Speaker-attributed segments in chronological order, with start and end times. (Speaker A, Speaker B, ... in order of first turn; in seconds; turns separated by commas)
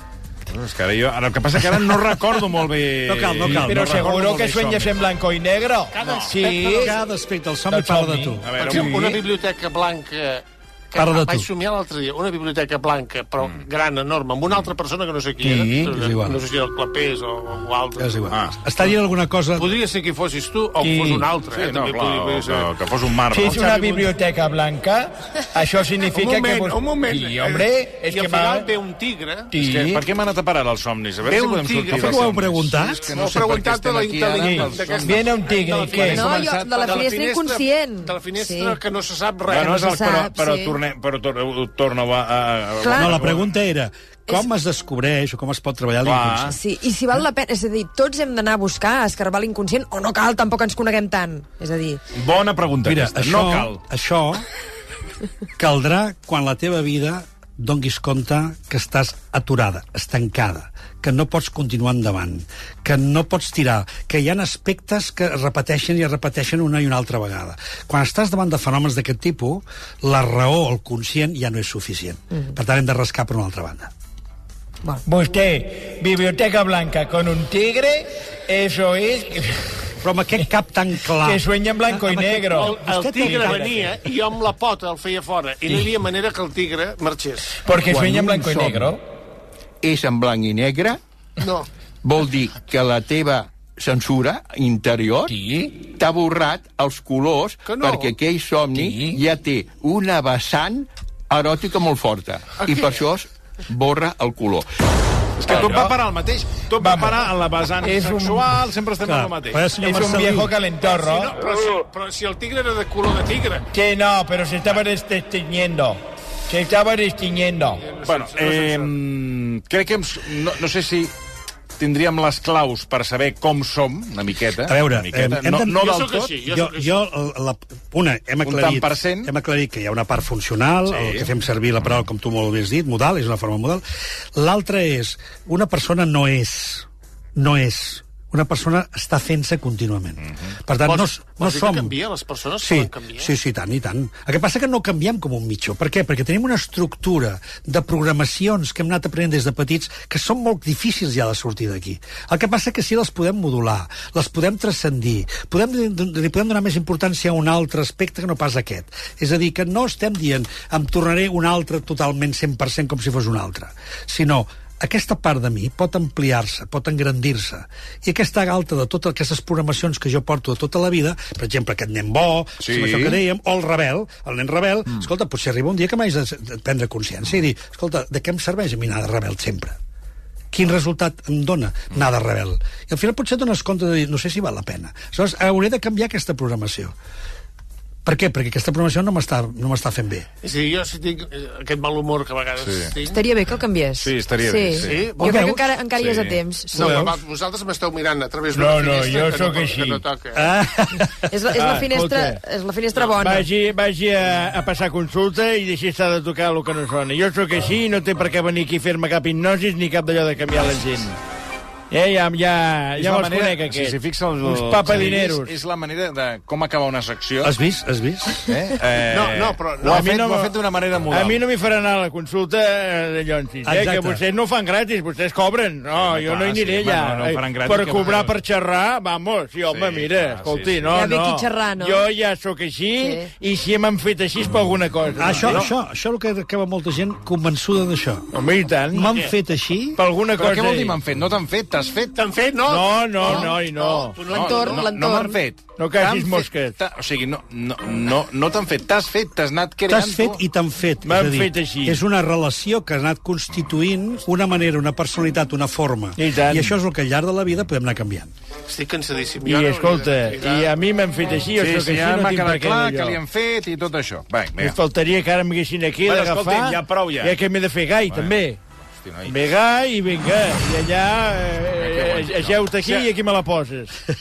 Speaker A: 0.5-4.9, Speaker B: 3.0-4.6, Speaker C: 3.4-6.9, Speaker D: 5.9-7.0, Speaker A: 6.0-6.3, Speaker B: 6.7-8.4, Speaker C: 7.7-9.2, Speaker A: 8.4-9.1, Speaker D: 8.6-18.3, Speaker B: 10.9-11.5, Speaker C: 15.4-15.9, Speaker B: 15.8-16.4, Speaker B: 18.0-19.7, Speaker A: 18.3-18.6, Speaker D: 19.6-22.7, Speaker C: 20.8-21.3, Speaker A: 21.5-23.6, Speaker C: 23.3-28.7, Speaker D: 23.4-24.1, Speaker D: 26.1-29.9, Speaker C: 29.5-30.0, Speaker A: 29.6-37.1, Speaker D: 31.2-32.2, Speaker B: 31.9-33.5, Speaker D: 33.1-39.7, Speaker C: 34.4-36.4, Speaker E: 36.0-38.8, Speaker A: 39.5-43.5, Speaker E: 39.5-40.8, Speaker E: 42.8-43.3, Speaker B: 43.0-46.5, Speaker A: 46.0-46.6, Speaker E: 46.5-52.0, Speaker A: 52.1-53.8, Speaker B: 52.8-54.5, Speaker B: 55.6-73.9, Speaker C: 75.0-79.6, Speaker B: 80.0-81.4, Speaker C: 81.2-84.0, Speaker B: 82.1-83.6, Speaker D: 82.5-87.5, Speaker C: 87.6-89.0, Speaker F: 87.8-88.9, Speaker F: 89.8-91.0, Speaker D: 91.4-91.7, Speaker F: 92.0-104.7, Speaker C: 95.3-95.7, Speaker D: 97.6-98.1, Speaker C: 98.7-99.2, Speaker D: 102.6-103.0, Speaker A: 105.4-109.7, Speaker C: 105.5-106.0, Speaker C: 106.8-107.2, Speaker C: 107.8-108.5, Speaker B: 109.0-110.5, Speaker C: 109.8-111.4, Speaker D: 110.8-113.7, Speaker C: 113.7-117.8, Speaker D: 117.8-118.9, Speaker A: 118.0-121.1, Speaker A: 121.8-126.3, Speaker B: 124.6-141.9, Speaker D: 125.8-127.0, Speaker A: 128.4-129.3, Speaker A: 130.9-131.3, Speaker D: 140.8-143.3, Speaker B: 142.6-179.8, Speaker A: 172.6-173.2, Speaker B: 180.5-186.9, Speaker B: 188.0-190.3, Speaker D: 190.4-193.2, Speaker A: 192.6-192.9, Speaker E: 193.0-197.1, Speaker A: 194.0-195.0, Speaker D: 194.8-195.5, Speaker B: 195.2-195.8, Speaker A: 195.9-196.4, Speaker D: 196.7-200.5, Speaker B: 196.7-197.2, Speaker C: 198.5-200.0, Speaker B: 200.3-201.3, Speaker E: 201.3-203.5, Speaker C: 201.6-202.4, Speaker C: 203.1-211.2, Speaker C: 211.9-215.5, Speaker A: 213.0-217.5, Speaker B: 217.4-218.4, Speaker A: 218.4-221.4, Speaker D: 219.1-220.1, Speaker C: 219.8-220.5, Speaker C: 221.1-235.7, Speaker B: 223.6-224.2, Speaker A: 225.9-228.4, Speaker A: 229.7-230.9, Speaker E: 230.9-232.1, Speaker E: 233.0-233.3, Speaker A: 235.1-235.7, Speaker B: 235.2-238.3, Speaker C: 238.3-239.2, Speaker B: 238.9-240.0, Speaker C: 239.9-241.0, Speaker A: 240.3-242.2, Speaker D: 242.2-244.9, Speaker C: 242.7-244.2, Speaker E: 244.2-245.4, Speaker A: 244.3-250.4, Speaker C: 245.8-246.7, Speaker B: 249.9-258.3, Speaker C: 251.0-252.0, Speaker C: 256.2-256.7, Speaker D: 258.7-260.7, Speaker C: 259.4-263.2, Speaker A: 261.6-264.8, Speaker C: 264.6-268.6, Speaker A: 266.0-267.4, Speaker A: 268.1-268.3, Speaker A: 268.9-269.4, Speaker C: 269.2-273.9, Speaker A: 271.8-273.1